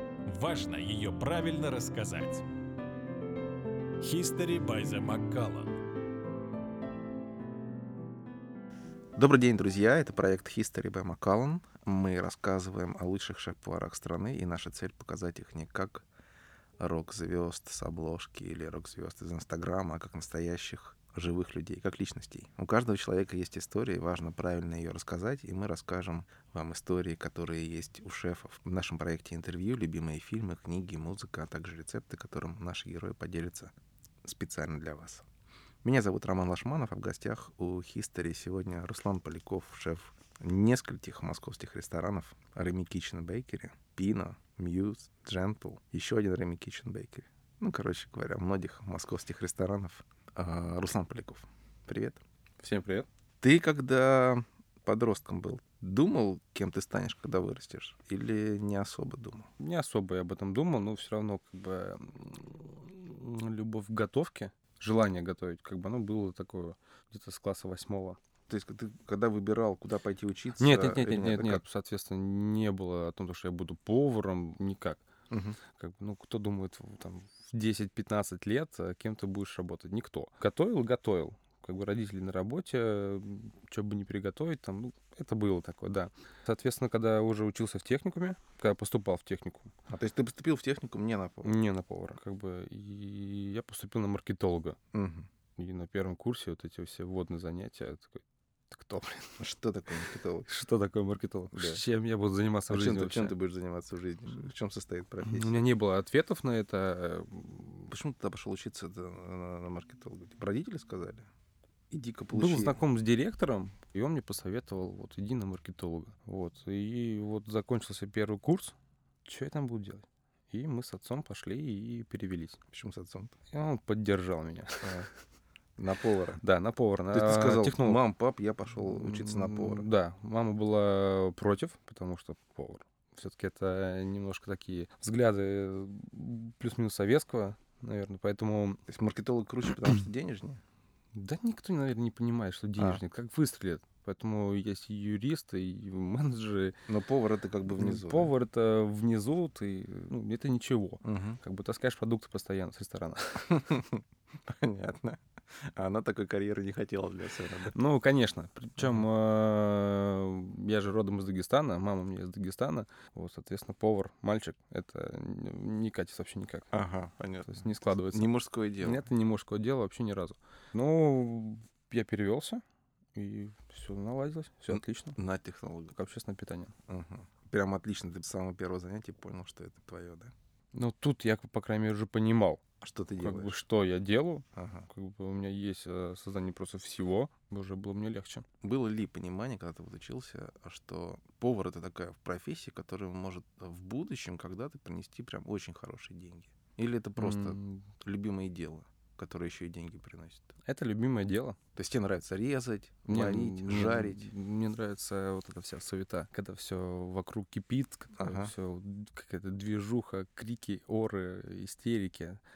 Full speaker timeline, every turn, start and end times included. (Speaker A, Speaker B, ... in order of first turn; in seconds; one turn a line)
Speaker A: 0.2-2.5
Speaker A: 4.0-5.7
Speaker B: 9.2-16.0
Speaker B: 16.8-33.7
Speaker B: 34.2-35.2
Speaker B: 35.8-52.2
Speaker C: 52.6-53.1
Speaker B: 53.4-59.5
Speaker C: 59.6-68.2
Speaker B: 68.5-71.6
Speaker C: 70.6-75.0
Speaker B: 75.3-75.6
Speaker C: 75.6-89.7
Speaker B: 89.9-91.6
Speaker C: 91.4-94.8
Speaker B: 94.9-95.3
Speaker C: 95.6-99.4
Speaker B: 99.4-100.5
Speaker C: 100.5-103.3
Speaker B: 101.5-101.8
Speaker B: 102.7-105.6
Speaker C: 105.2-107.9
Speaker B: 107.9-111.3
Speaker B: 111.9-112.8
Speaker C: 112.3-122.6
Speaker B: 122.7-123.3
Speaker C: 123.5-125.0
Speaker B: 124.8-125.1
Speaker B: 125.8-126.4
Speaker C: 126.4-128.0
Speaker B: 127.1-129.9
Speaker C: 128.8-138.8
Speaker B: 138.9-140.6
Speaker C: 141.1-146.8
Speaker B: 146.9-148.3
Speaker C: 147.8-153.7
Speaker B: 151.0-151.4
Speaker B: 153.5-157.7
Speaker C: 157.7-166.7
Speaker B: 166.7-169.0
Speaker C: 167.5-172.6
Speaker C: 173.1-175.2
Speaker B: 174.7-175.9
Speaker C: 175.9-176.7
Speaker B: 176.9-180.3
Speaker C: 180.7-182.6
Speaker B: 182.8-183.6
Speaker C: 183.2-188.4
Speaker B: 184.5-184.9
Speaker B: 188.6-200.5
Speaker C: 197.2-197.8
Speaker C: 200.6-201.6
Speaker B: 201.7-204.3
Speaker C: 203.1-212.4
Speaker B: 208.2-208.5